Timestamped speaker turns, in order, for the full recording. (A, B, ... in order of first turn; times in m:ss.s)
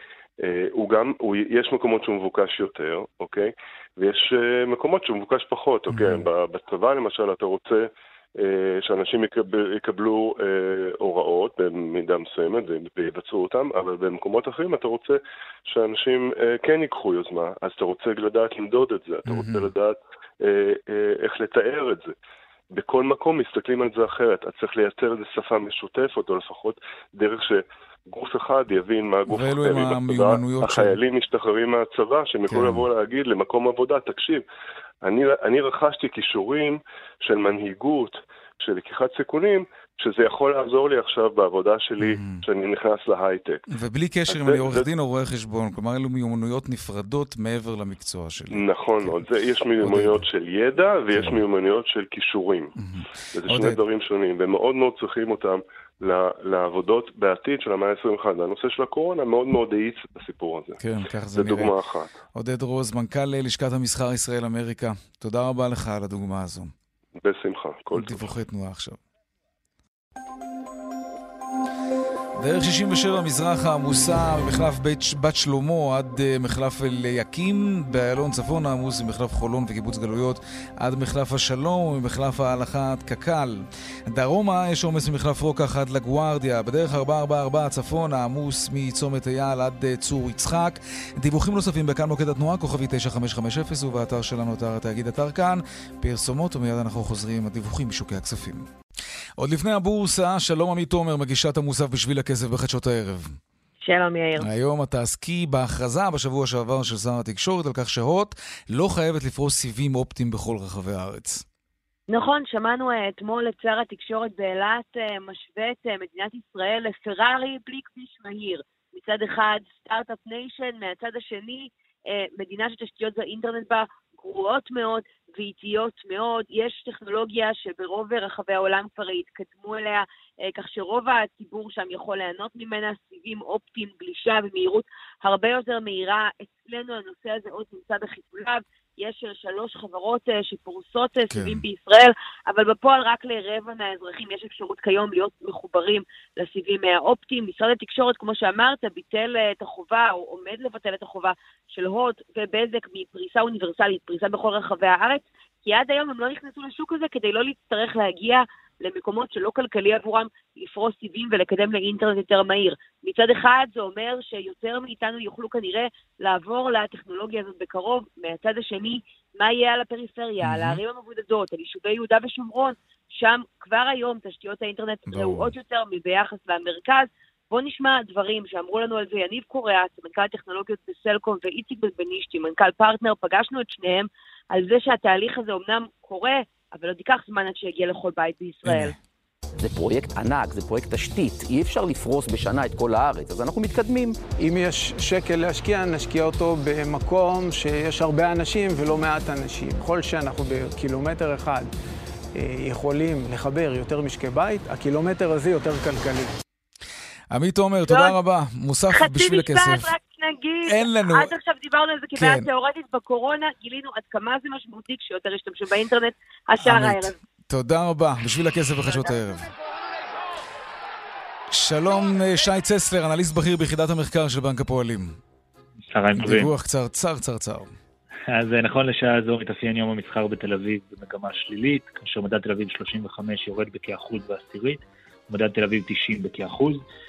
0:00.4-0:22.1 A
0:05.9-0:06.3 B
0:19.3-0:19.7 B
0:22.7-0:34.4 A
0:29.3-0:31.0 B
0:32.5-0:32.8 B
0:35.0-0:43.6 A
0:42.0-0:42.4 B
0:43.7-0:49.2 B
0:44.3-0:44.9 A
0:48.5-0:52.7 A
0:49.8-0:50.2 B
0:51.2-0:51.4 B
0:52.8-0:53.8 B
0:53.3-1:00.8 A
1:00.8-1:01.7 B
1:01.3-1:02.1 A
1:02.3-1:06.7 B
1:07.2-1:08.3 A
1:07.9-1:09.0 B
1:12.4-1:38.7 B
1:39.4-1:43.4 B
1:43.8-1:44.5 C
1:44.4-1:51.4 B
1:52.1-3:09.0 C
2:21.3-2:21.6 B
2:50.4-2:50.8 B
2:55.1-2:55.5 B
3:08.7-3:08.9 B
3:09.6-3:14.2 D
3:14.4-3:21.7 E
3:22.4-3:26.3 E
3:27.3-3:29.9 B
3:27.8-3:28.2 C
3:28.9-3:37.2 C
3:30.7-3:31.3 B
3:32.2-3:32.5 B
3:36.6-3:39.5 B
3:41.5-3:45.2 B
3:45.9-3:46.5 F
3:46.2-3:47.7 B
3:48.3-3:56.8 F